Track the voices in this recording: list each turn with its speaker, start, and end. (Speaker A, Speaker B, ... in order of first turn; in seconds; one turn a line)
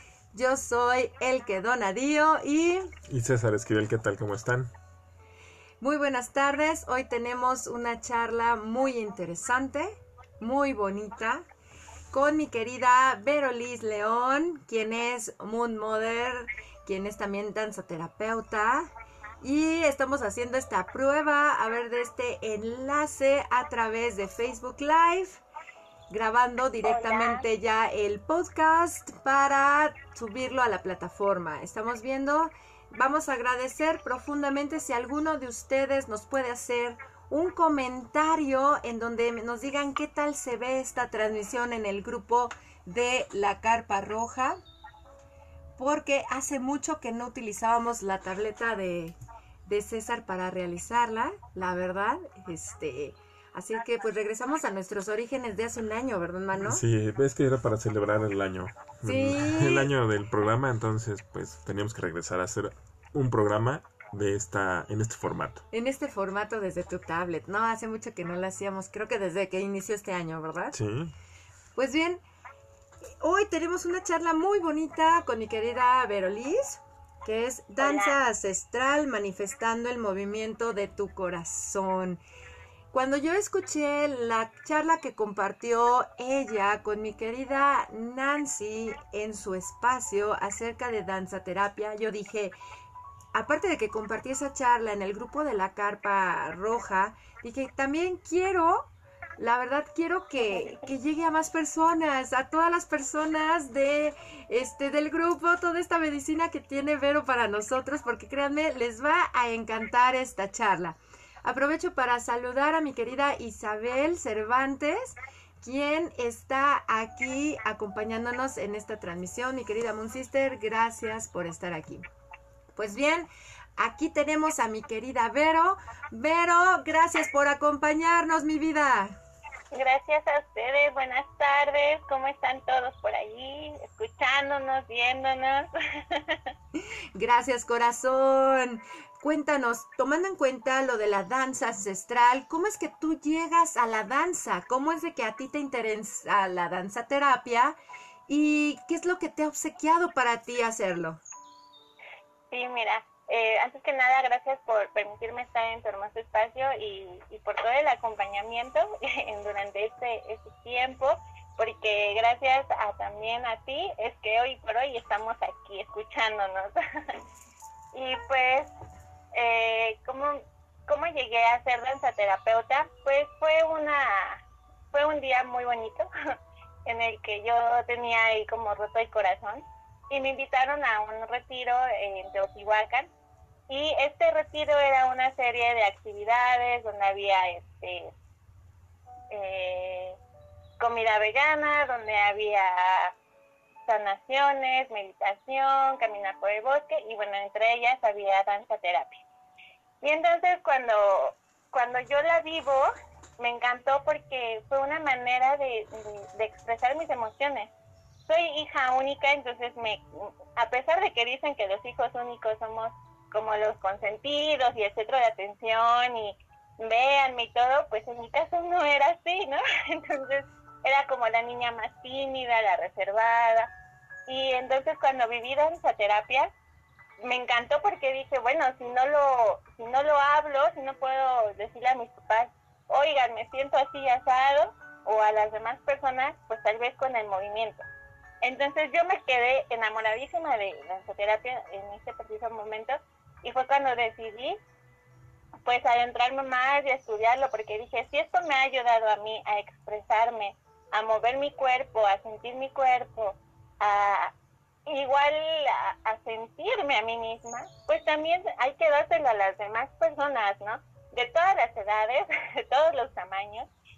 Speaker A: 0.3-2.9
Speaker B: 3.1-4.7
Speaker A: 5.8-11.4
Speaker A: 12.1-18.9
Speaker A: 19.4-25.4
Speaker A: 26.1-44.6
Speaker C: 26.8-27.4
Speaker A: 45.8-56.8
Speaker B: 56.6-65.6
Speaker A: 59.0-59.9
Speaker A: 65.7-70.8
Speaker B: 70.7-71.1
Speaker A: 71.7-72.2
Speaker A: 73.2-82.2
Speaker C: 77.8-78.2
Speaker A: 82.9-92.5
Speaker A: 93.3-122.0
Speaker A: 122.7-129.1
Speaker C: 129.7-136.5
Speaker A: 137.1-147.8
Speaker A: 148.3-151.2
Speaker C: 152.5-166.8
Speaker C: 167.9-168.7
Speaker C: 169.3-176.1
Speaker C: 176.8-183.1
Speaker C: 183.7-188.1
Speaker C: 189.3-190.2
Speaker C: 190.8-193.1
Speaker C: 193.8-199.2
Speaker C: 200.0-207.7
Speaker C: 208.2-223.7
Speaker C: 224.3-226.5
Speaker C: 227.2-237.9
Speaker C: 238.4-244.6
Speaker C: 245.7-254.3
Speaker C: 254.9-263.7